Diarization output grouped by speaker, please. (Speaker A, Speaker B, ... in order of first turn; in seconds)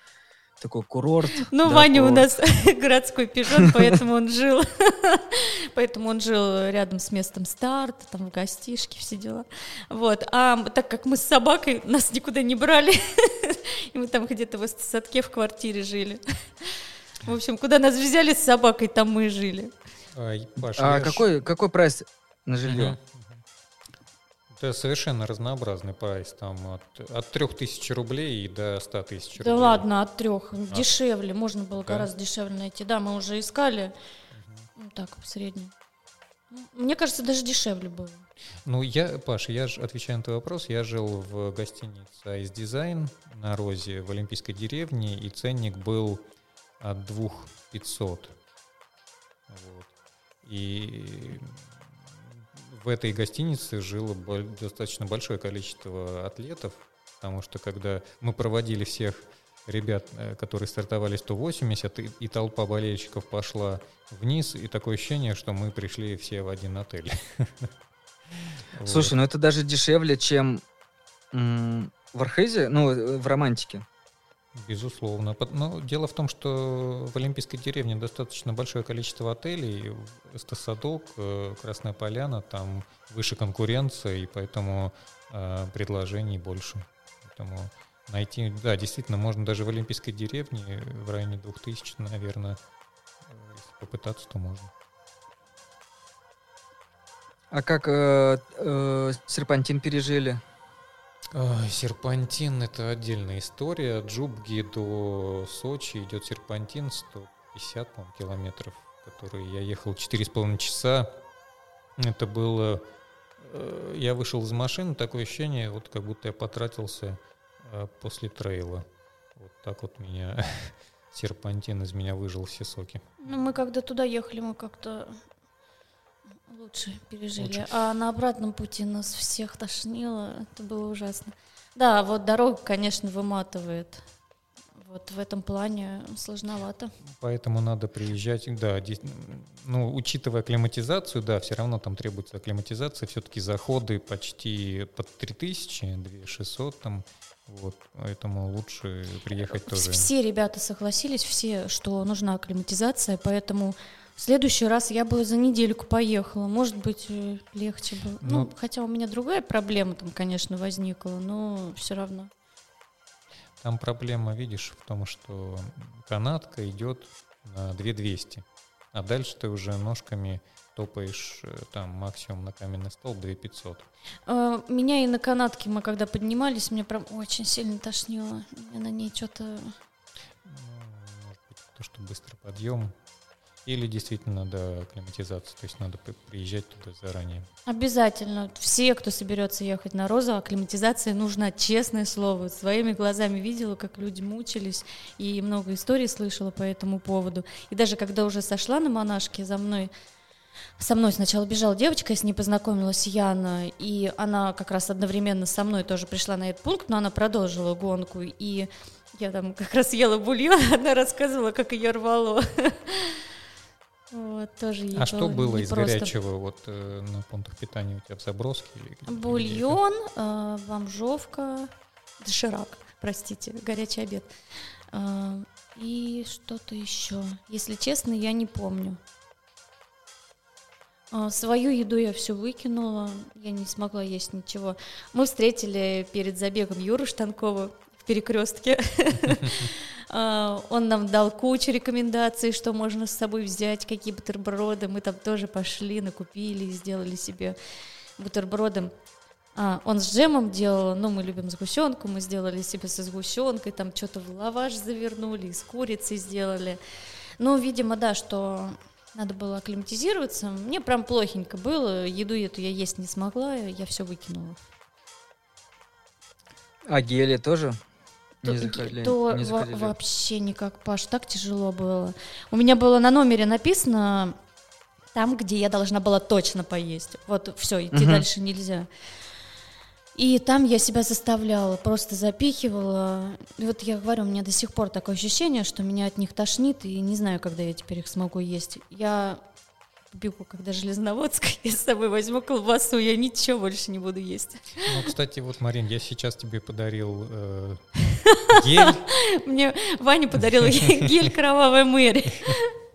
Speaker A: 0.6-2.3, 20.8-23.0, 68.9-70.6, 71.3-73.8, 97.5-100.4, 266.9-267.8, 268.4-269.9, 277.9-278.2
Speaker B: 1.5-19.7, 29.4-33.9, 34.8-35.7, 36.5-38.3, 123.2-125.2, 126.5-134.1, 134.8-136.9, 149.5-162.3, 174.3-179.8, 187.7-199.9, 200.8-213.2, 214.1-216.1, 219.1-224.3, 224.9-229.0, 231.1-247.6, 248.2-248.9, 249.6-256.8, 257.4-264.6, 268.4-274.4, 275.1-278.9, 280.1-289.4, 290.1-294.9, 298.3-302.7
Speaker C: 20.1-21.3, 22.6-23.4, 24.5-29.9, 34.3-34.7, 38.7-46.2, 46.8-48.4, 49.5-49.9, 50.4-67.7, 68.4-69.1, 74.6-92.6, 93.3-94.7, 101.3-111.2, 112.0-112.9, 113.4-123.2, 127.4-127.7, 137.0-150.1, 158.2-158.5, 163.6-173.9, 180.4-182.9, 183.7-187.5, 214.9-219.8, 294.9-299.0